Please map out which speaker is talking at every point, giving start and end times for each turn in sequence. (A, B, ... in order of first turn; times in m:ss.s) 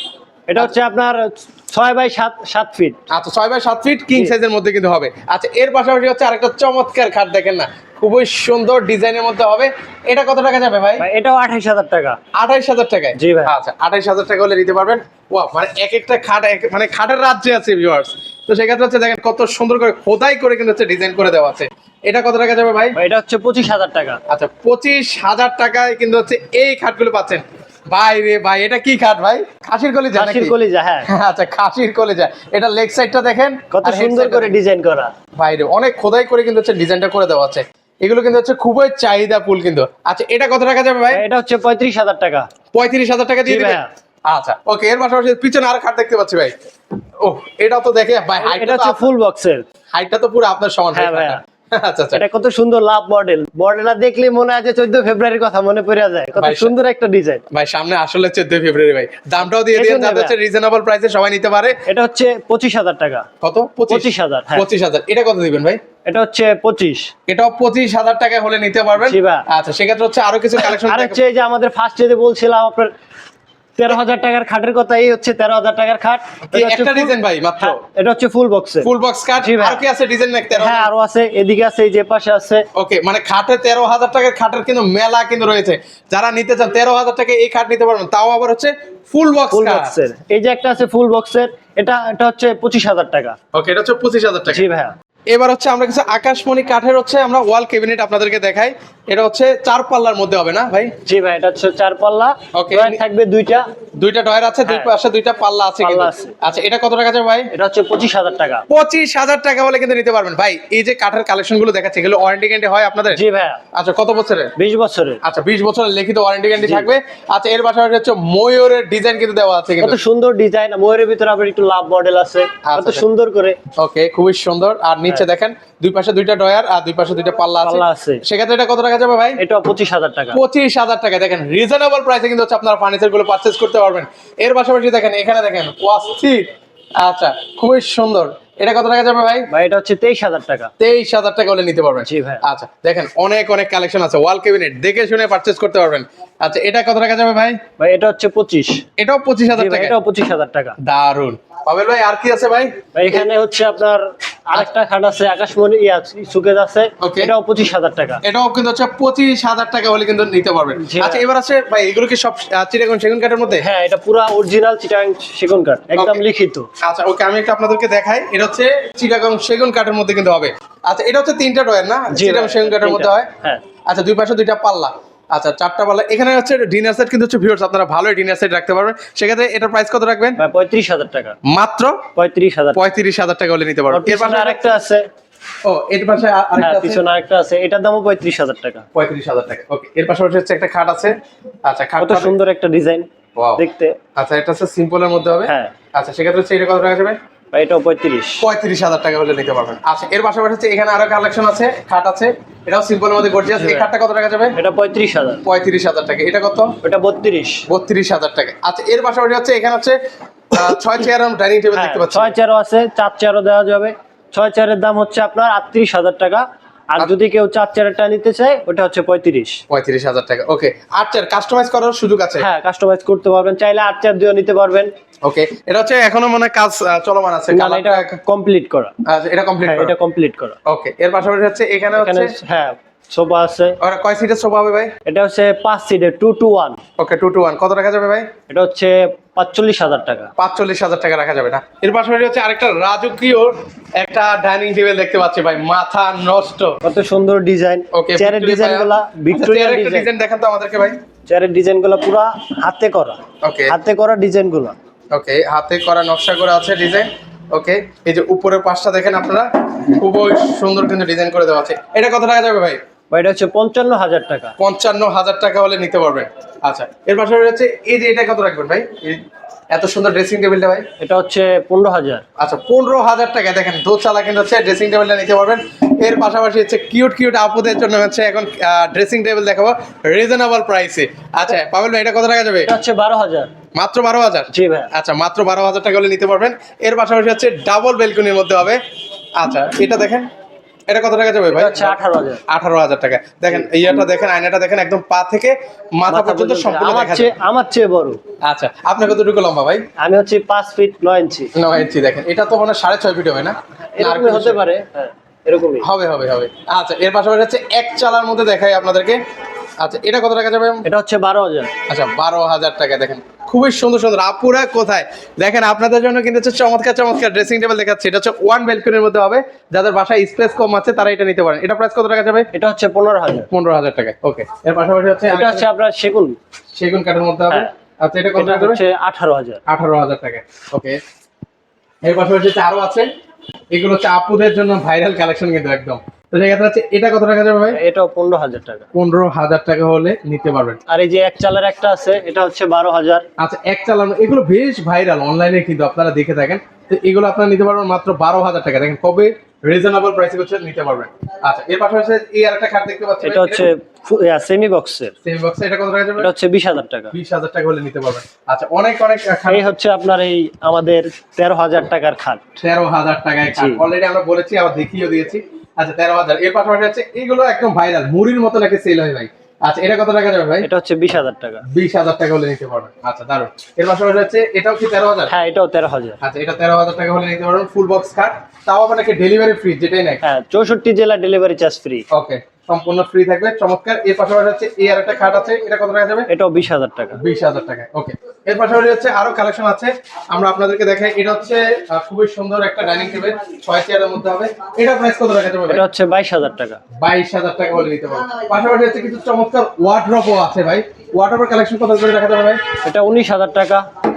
0:00.5-0:03.0 A
0:03.1-0:11.0 B
0:11.0-0:12.2 A
0:12.3-0:23.0 B
0:13.2-0:13.5 A
0:23.0-0:24.2 A
0:24.3-0:30.5 B
0:30.1-0:31.1 A
0:31.1-0:34.5 B
0:33.7-0:35.1 A
0:35.4-0:41.2 B
0:41.1-0:42.5 A
0:42.7-0:46.5 B
0:43.4-0:43.9 A
0:47.2-0:49.1 B
0:48.4-0:49.6 A
0:49.9-0:52.2 B
0:50.9-0:51.4 A
0:52.1-0:57.4 A
0:56.4-0:56.7 B
0:57.5-1:01.8 B
0:59.6-1:00.4 A
1:01.9-1:03.2 A
1:03.4-1:05.8 B
1:03.9-1:04.6 A
1:06.0-1:07.1 A
1:07.3-1:11.2 B
1:09.0-1:09.4 A
1:10.6-1:12.9 A
1:13.8-1:19.8 A
1:16.5-1:17.8 B
1:18.8-1:20.9 B
1:20.5-1:22.6 A
1:22.7-1:29.9 B
1:29.5-1:33.4 A
1:33.5-1:34.6 B
1:34.5-1:34.9 A
1:35.3-1:40.9 B
1:41.0-1:43.6 A
1:42.5-1:43.0 B
1:44.0-1:47.5 B
1:44.6-1:44.9 A
1:45.8-1:46.3 A
1:47.5-1:48.6 A
1:48.7-1:53.2 B
1:53.1-1:53.6 A
1:53.7-1:54.5 B
1:54.6-1:55.2 A
1:55.2-2:00.0 B
1:56.6-1:56.9 A
1:59.8-2:03.6 A
2:02.6-2:03.0 B
2:03.8-2:09.4 B
2:07.6-2:08.2 A
2:09.4-2:10.4 A
2:10.3-2:16.5 B
2:17.0-2:19.5 B
2:19.5-2:20.7 A
2:20.8-2:27.6 B
2:22.0-2:22.4 A
2:27.8-2:28.8 A
2:29.0-2:30.0 B
2:29.5-2:30.8 A
2:30.8-2:33.2 B
2:32.9-2:38.2 A
2:37.0-2:37.3 B
2:38.2-2:43.6 B
2:40.8-2:41.2 A
2:43.5-2:46.7 A
2:46.0-2:46.2 B
2:46.8-2:53.3 B
2:52.1-2:53.6 A
2:53.9-3:00.4 B
3:00.4-3:01.4 A
3:01.4-3:02.0 B
3:02.2-3:02.8 A
3:02.7-3:04.8 B
3:03.9-3:05.0 A
3:05.6-3:07.0 B
3:06.6-3:08.8 A
3:08.9-3:11.1 B
3:11.6-3:12.3 B
3:12.0-3:13.0 A
3:13.4-3:13.6 B
3:13.6-3:14.0 A
3:14.2-3:17.2 B
3:15.5-3:15.7 A
3:17.5-3:18.4 A
3:18.4-3:24.6 B
3:23.5-3:23.9 A
3:24.6-3:25.4 A
3:25.4-3:26.7 B
3:26.8-3:27.6 A
3:27.7-3:30.0 B
3:30.5-3:32.3 B
3:31.7-3:39.6 A
3:39.7-3:42.4 B
3:42.4-3:44.9 A
3:45.2-3:48.2 B
3:47.5-3:48.9 A
3:49.0-3:49.9 B
3:49.6-3:50.6 A
3:50.6-3:52.3 B
3:52.0-3:53.8 A
3:53.8-3:54.9 B
3:55.0-3:56.8 A
3:57.0-3:58.3 B
3:58.5-4:00.3 A
4:00.4-4:06.8 B
4:06.8-4:10.1 A
4:07.9-4:11.0 B
4:11.3-4:14.8 A
4:13.4-4:13.7 B
4:15.1-4:22.8 B
4:23.1-4:24.6 A
4:24.6-4:29.2 B
4:29.7-4:30.8 B
4:31.0-4:32.2 A
4:32.4-4:42.7 B
4:42.6-4:43.5 A
4:43.7-4:48.8 B
4:44.5-4:44.9 A
4:49.4-4:50.3 B
4:50.9-4:52.0 B
4:51.5-4:52.4 A
4:52.5-4:57.3 B
4:56.1-4:58.2 A
4:58.4-4:59.8 B
5:00.0-5:01.5 A
5:01.5-5:04.6 B
5:03.9-5:05.9 A
5:05.8-5:09.2 B
5:09.8-5:10.8 B
5:10.8-5:11.7 A
5:11.9-5:22.5 B
5:22.5-5:23.5 A
5:23.5-5:25.6 B
5:25.3-5:26.4 A
5:26.8-5:28.8 B
5:28.4-5:29.6 A
5:29.7-5:31.0 B
5:32.0-5:33.1 B
5:33.7-5:37.8 B
5:37.7-5:38.9 A
5:38.9-5:40.8 B
5:40.9-5:43.2 A
5:43.4-5:53.7 B
5:53.2-5:55.1 A
5:55.2-5:56.3 B
5:56.2-5:57.1 A
5:57.1-5:59.6 B
5:59.5-6:02.6 A
6:02.6-6:10.7 B
6:03.6-6:03.8 A
6:10.6-6:11.6 A
6:11.7-6:15.3 B
6:15.3-6:16.2 A
6:16.2-6:20.2 B
6:20.2-6:22.0 A
6:22.1-6:26.3 B
6:26.3-6:27.2 A
6:27.2-6:35.8 B
6:35.7-6:36.8 A
6:37.0-6:42.6 B
6:42.8-6:43.8 A